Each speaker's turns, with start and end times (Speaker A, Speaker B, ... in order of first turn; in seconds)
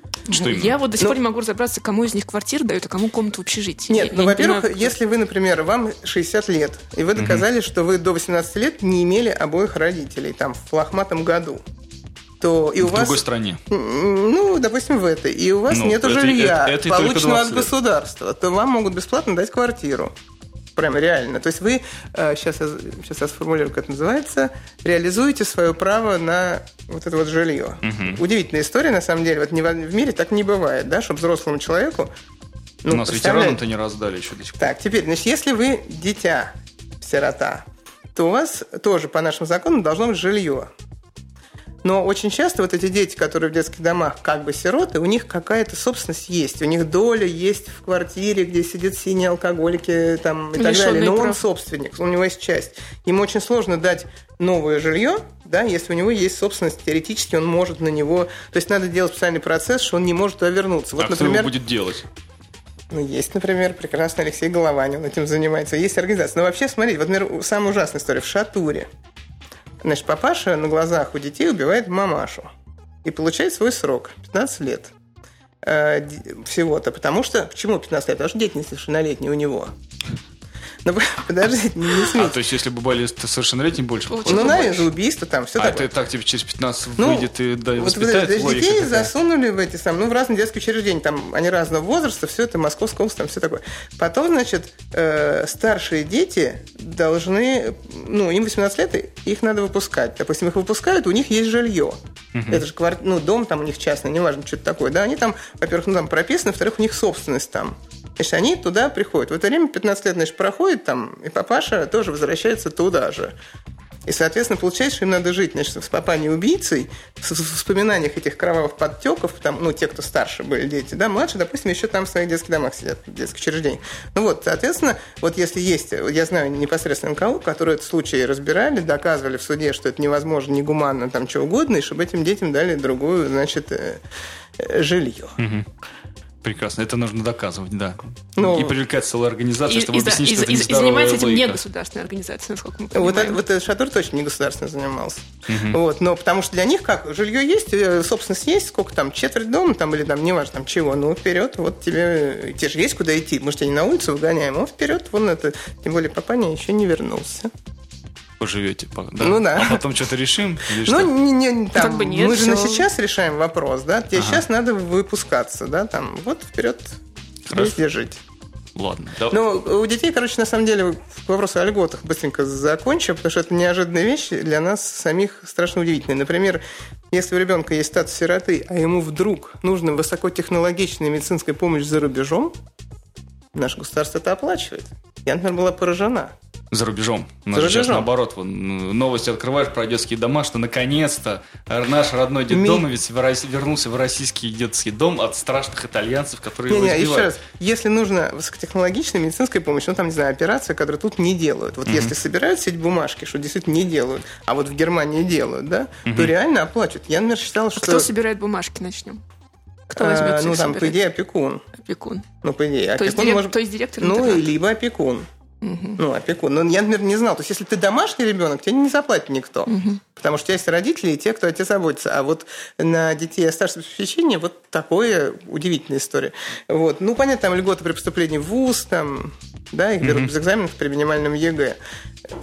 Speaker A: 0.3-4.9, 50.6-51.4, 84.1-84.8, 139.7-143.4, 161.7-162.9, 207.8-209.2, 209.9-211.0, 211.8-212.3, 212.9-214.5, 215.6-216.0, 219.7-220.0
Speaker B: 0.3-0.8, 7.2-7.5, 12.8-13.6, 15.7-17.7, 27.8-28.2, 32.9-34.7, 61.0-62.0, 82.1-84.8, 85.6-89.1, 102.3-102.6, 135.4-135.7, 136.4-141.6, 145.5-145.8, 158.4-161.1, 164.2-164.4, 167.5-167.8, 168.8-169.4, 186.7-197.3, 201.9-202.1, 206.1-206.3, 230.0-230.3
Speaker C: 3.9-11.6, 12.4-20.1, 20.8-32.1, 32.8-33.6, 34.6-40.7, 41.8-61.5, 62.9-68.9, 69.8-72.5, 73.0-74.9, 75.6-79.7, 80.8-82.4, 84.3-85.9, 87.0-102.0, 102.5-113.3, 114.1-134.0, 134.6-135.4, 138.4-138.7, 142.9-157.5, 159.2-159.8, 160.8-167.0, 167.5-168.2, 169.3-182.5, 183.5-186.3, 187.5-188.1, 192.5-192.9, 196.7-208.1, 209.9-211.6, 212.4-215.3, 216.0-231.8